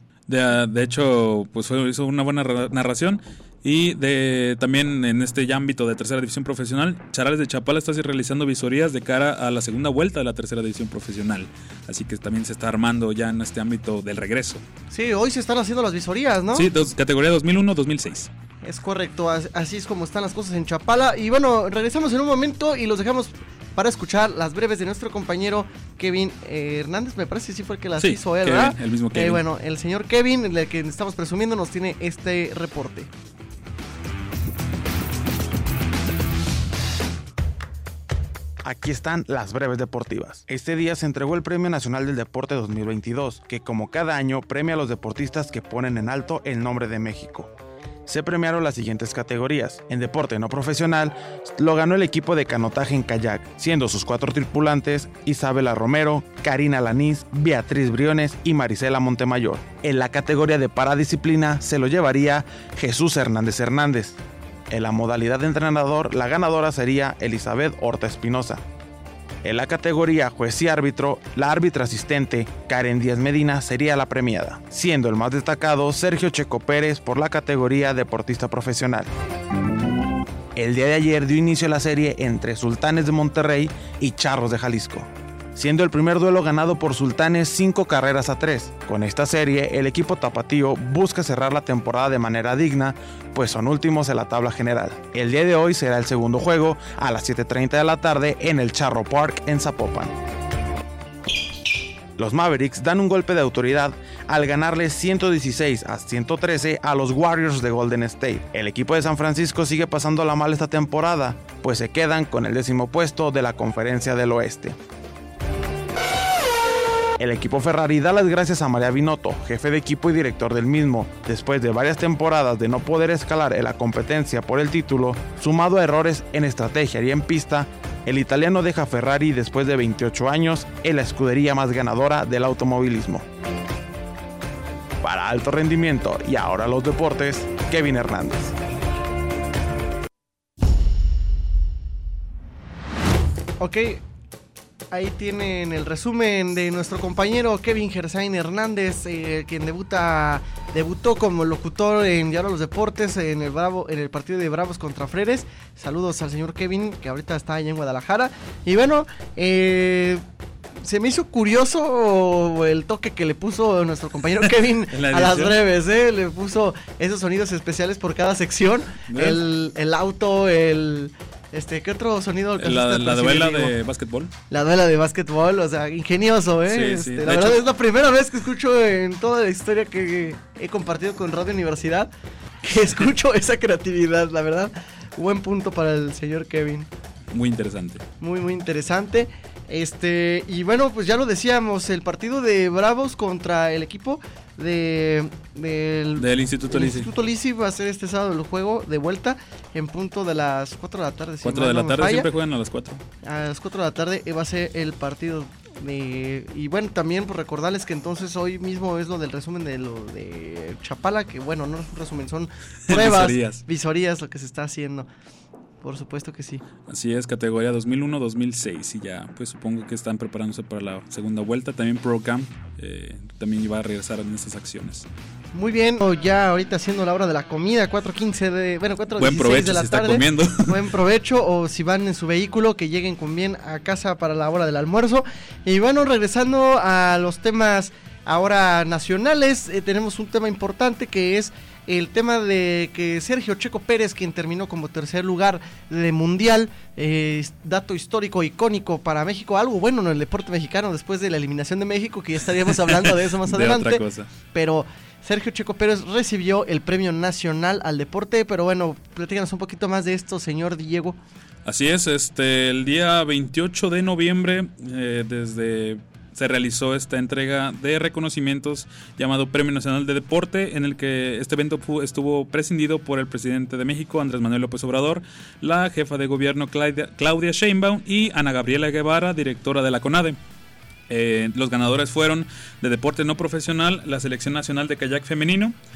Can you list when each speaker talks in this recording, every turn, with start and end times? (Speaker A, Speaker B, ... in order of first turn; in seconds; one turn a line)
Speaker A: 0.3-14.6
Speaker B: 14.9-16.7
Speaker A: 16.6-18.3
Speaker B: 18.6-33.1
Speaker A: 28.0-29.4
Speaker C: 38.6-47.5
Speaker C: 48.1-64.2
Speaker C: 64.7-68.6
Speaker C: 69.4-79.1
Speaker C: 80.6-100.2
Speaker C: 102.2-114.8
Speaker C: 117.2-133.2
Speaker C: 135.0-138.6
Speaker B: 143.6-144.0
Speaker B: 144.9-160.2
Speaker B: 160.8-173.7
Speaker A: 164.9-165.6
Speaker A: 169.1-169.4
Speaker A: 172.6-174.3
Speaker B: 174.5-182.1
Speaker A: 176.7-177.6
Speaker B: 182.6-186.9
Speaker A: 187.3-188.1
Speaker B: 188.2-202.3
Speaker A: 196.2-197.1
Speaker A: 201.4-203.0
Speaker B: 203.2-215.1
Speaker A: 212.9-213.6
Speaker B: 215.8-216.6
Speaker A: 216.9-225.1
Speaker B: 225.5-261.2
Speaker A: 229.2-230.9
Speaker A: 252.9-254.3
Speaker A: 261.6-280.4
Speaker A: 281.1-285.8